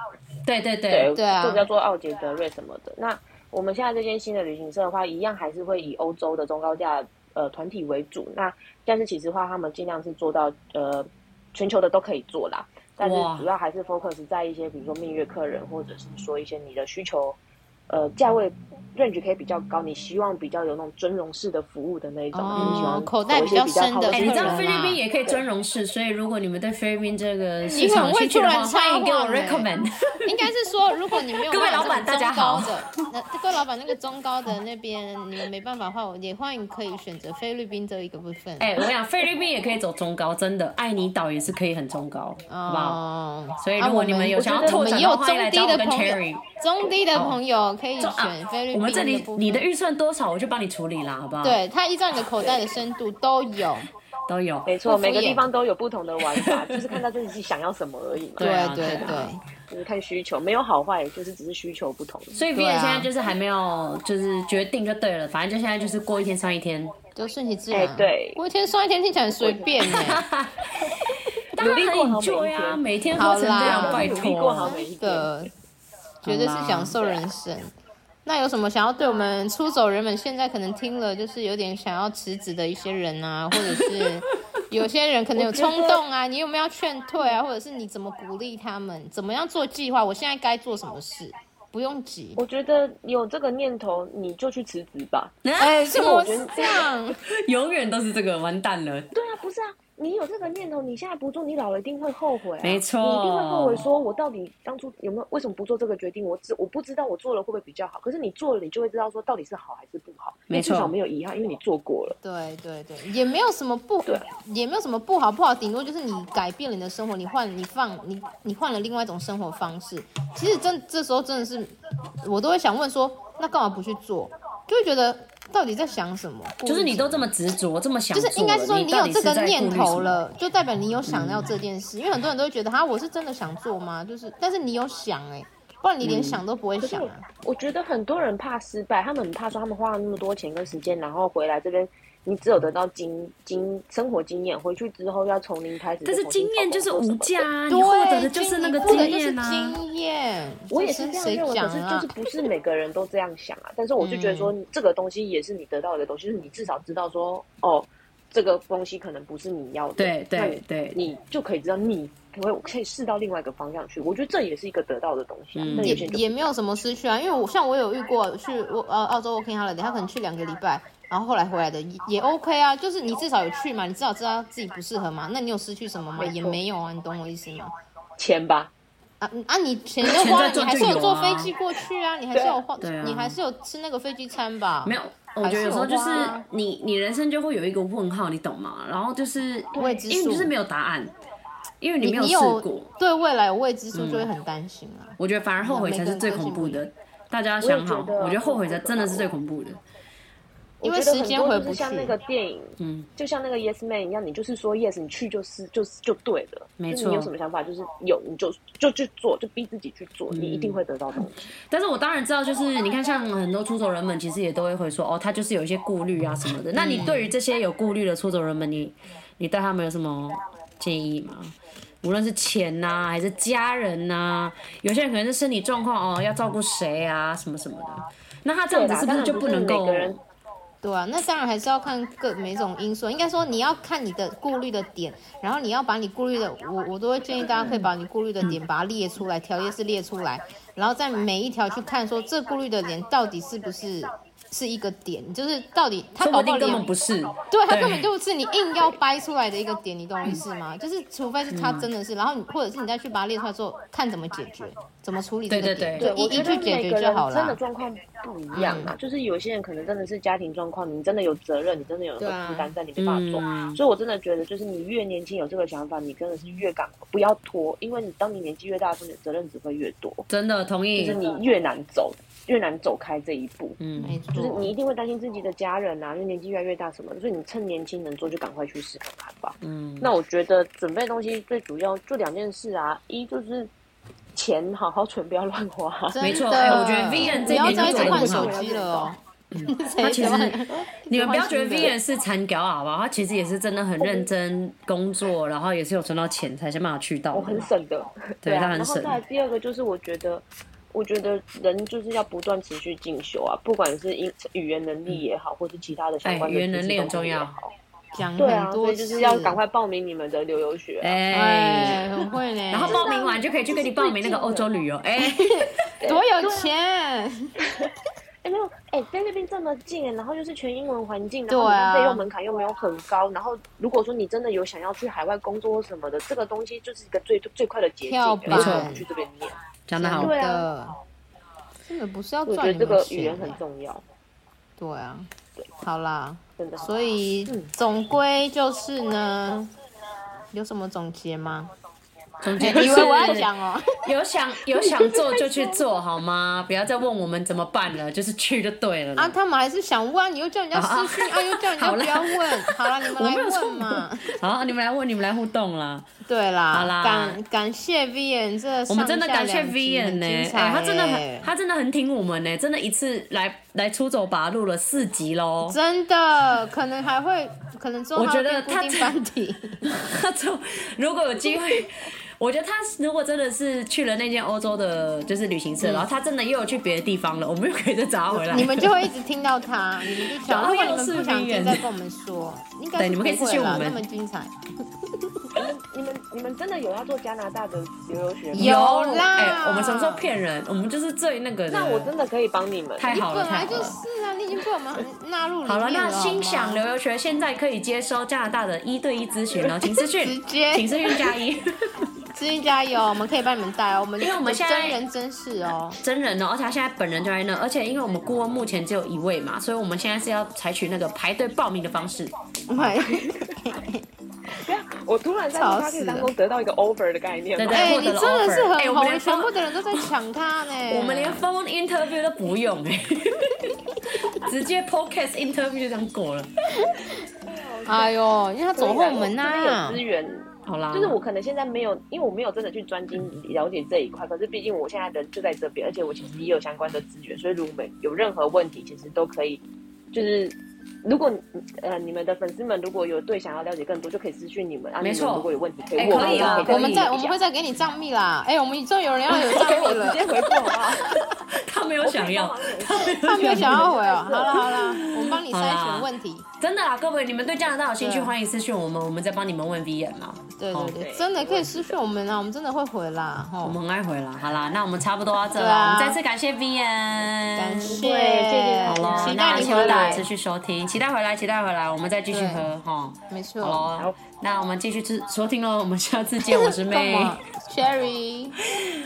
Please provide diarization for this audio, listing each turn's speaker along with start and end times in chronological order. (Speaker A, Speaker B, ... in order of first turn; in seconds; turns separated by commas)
Speaker A: 0.5-1.1, Speaker B: 0.9-24.7, Speaker C: 1.1-1.7, Speaker A: 13.0-13.5, Speaker C: 22.3-25.0, Speaker A: 22.6-23.0, Speaker A: 24.1-30.2, Speaker C: 27.7-29.7, Speaker C: 30.2-38.8, Speaker A: 31.4-32.9, Speaker A: 38.6-43.0, Speaker C: 42.5-49.7, Speaker A: 43.6-46.4, Speaker B: 44.4-44.9, Speaker A: 47.1-47.4, Speaker A: 48.0-51.6, Speaker C: 51.4-53.9, Speaker B: 52.4-52.8, Speaker A: 54.3-54.7, Speaker B: 54.7-59.1, Speaker C: 54.9-55.5, Speaker A: 56.3-57.0, Speaker A: 58.4-59.3, Speaker C: 58.4-59.4, Speaker B: 59.6-62.4, Speaker A: 62.3-67.0, Speaker C: 62.5-63.1, Speaker C: 67.2-70.2, Speaker B: 67.7-68.4, Speaker B: 69.4-70.0, Speaker A: 69.8-74.7, Speaker B: 71.6-72.8, Speaker C: 73.2-75.5, Speaker B: 73.5-75.3, Speaker C: 76.2-77.7, Speaker A: 76.2-77.0, Speaker C: 78.2-92.4, Speaker A: 83.7-84.0, Speaker B: 85.4-86.0, Speaker B: 92.4-95.4, Speaker A: 95.4-96.3, Speaker C: 95.6-97.2, Speaker B: 95.9-96.9, Speaker A: 97.2-99.1, Speaker B: 99.1-112.2, Speaker A: 102.6-103.8, Speaker A: 110.5-111.0, Speaker C: 112.2-127.3, Speaker A: 126.7-130.2, Speaker C: 128.1-137.2, Speaker A: 131.1-131.5, Speaker A: 136.0-136.4, Speaker B: 136.8-147.5, Speaker A: 146.1-149.8, Speaker C: 147.7-152.1, Speaker B: 150.7-166.4, Speaker C: 154.0-154.5, Speaker A: 160.0-161.0, Speaker A: 165.6-166.1, Speaker C: 165.8-177.7, Speaker B: 176.2-176.6, Speaker B: 178.2-178.7, Speaker C: 179.2-186.5, Speaker A: 180.1-181.5, Speaker B: 182.3-182.6, Speaker A: 182.8-183.4, Speaker A: 184.8-191.2, Speaker C: 189.8-190.5, Speaker A: 191.8-192.9, Speaker C: 192.0-196.8, Speaker A: 193.9-194.3, Speaker A: 195.2-199.8, Speaker B: 197.6-199.3, Speaker B: 200.8-211.5, Speaker C: 200.8-202.2, Speaker A: 202.8-203.1, Speaker A: 206.8-207.3, Speaker A: 210.3-230.2, Speaker C: 216.8-217.3, Speaker B: 228.7-230.2, Speaker C: 230.8-246.9, Speaker A: 237.6-237.9, Speaker A: 246.2-248.1, Speaker C: 247.5-257.6, Speaker A: 251.5-251.9, Speaker A: 255.5-256.1, Speaker B: 256.0-270.3, Speaker C: 258.5-258.9, Speaker C: 262.2-262.7, Speaker A: 263.0-263.8, Speaker A: 270.3-271.2, Speaker B: 271.0-273.8, Speaker A: 273.8-274.6, Speaker C: 274.0-274.7, Speaker B: 274.3-283.7, Speaker A: 279.6-280.1, Speaker B: 284.4-289.1, Speaker C: 286.1-292.0, Speaker A: 286.2-288.6, Speaker A: 289.5-297.7, Speaker B: 290.2-291.0, Speaker B: 294.0-294.3, Speaker B: 297.3-307.7, Speaker A: 298.4-299.2, Speaker A: 306.2-307.5, Speaker C: 308.1-309.6, Speaker B: 308.4-311.2, Speaker A: 311.0-312.1, Speaker C: 311.3-313.1, Speaker A: 312.7-315.6, Speaker B: 312.9-314.7, Speaker C: 315.2-317.7, Speaker B: 316.0-316.7, Speaker B: 317.6-317.9, Speaker B: 318.4-329.6, Speaker C: 321.5-322.2, Speaker C: 328.1-329.1, Speaker A: 328.5-328.9, Speaker A: 329.9-330.4, Speaker C: 330.0-330.9, Speaker B: 330.2-330.7, Speaker C: 331.9-333.6, Speaker B: 332.5-334.0, Speaker C: 334.8-339.7, Speaker B: 336.6-336.9, Speaker B: 337.5-337.7, Speaker C: 340.5-341.7, Speaker A: 342.4-349.4, Speaker C: 342.6-344.1, Speaker B: 342.6-343.3, Speaker B: 344.8-345.9, Speaker C: 349.2-354.4, Speaker A: 350.7-356.1, Speaker C: 356.3-361.5, Speaker A: 356.7-357.4, Speaker A: 358.9-365.8, Speaker C: 365.6-369.9, Speaker A: 368.1-369.1, Speaker A: 369.8-379.1, Speaker C: 375.8-376.1, Speaker C: 378.5-384.5, Speaker A: 380.2-381.8, Speaker A: 383.0-384.0, Speaker C: 385.2-385.6, Speaker B: 385.6-388.8, Speaker A: 388.5-392.1, Speaker C: 388.6-390.3, Speaker B: 391.7-393.1, Speaker A: 393.0-394.0, Speaker C: 393.1-396.8, Speaker A: 395.7-401.6, Speaker C: 399.9-401.4, Speaker C: 402.3-406.0, Speaker A: 404.2-405.0, Speaker A: 406.0-412.3, Speaker C: 412.7-414.0, Speaker B: 413.0-413.6, Speaker B: 414.5-418.1, Speaker C: 415.5-416.3, Speaker A: 417.6-420.1, Speaker C: 417.7-421.5, Speaker A: 420.8-426.5, Speaker B: 427.4-428.1, Speaker C: 427.9-430.0, Speaker B: 428.8-439.6, Speaker A: 430.7-431.2, Speaker B: 440.1-447.4, Speaker A: 445.0-447.1, Speaker C: 446.2-450.3, Speaker B: 449.4-451.3, Speaker A: 451.1-453.9, Speaker B: 452.0-454.8, Speaker C: 453.0-456.5, Speaker A: 454.5-461.0, Speaker C: 458.0-458.3, Speaker C: 460.6-463.8, Speaker B: 460.9-461.9, Speaker A: 463.6-468.0, Speaker C: 465.6-466.2, Speaker C: 467.6-470.2, Speaker B: 467.9-470.3, Speaker A: 468.9-477.4, Speaker C: 472.3-472.6, Speaker C: 473.3-473.9, Speaker C: 476.4-478.6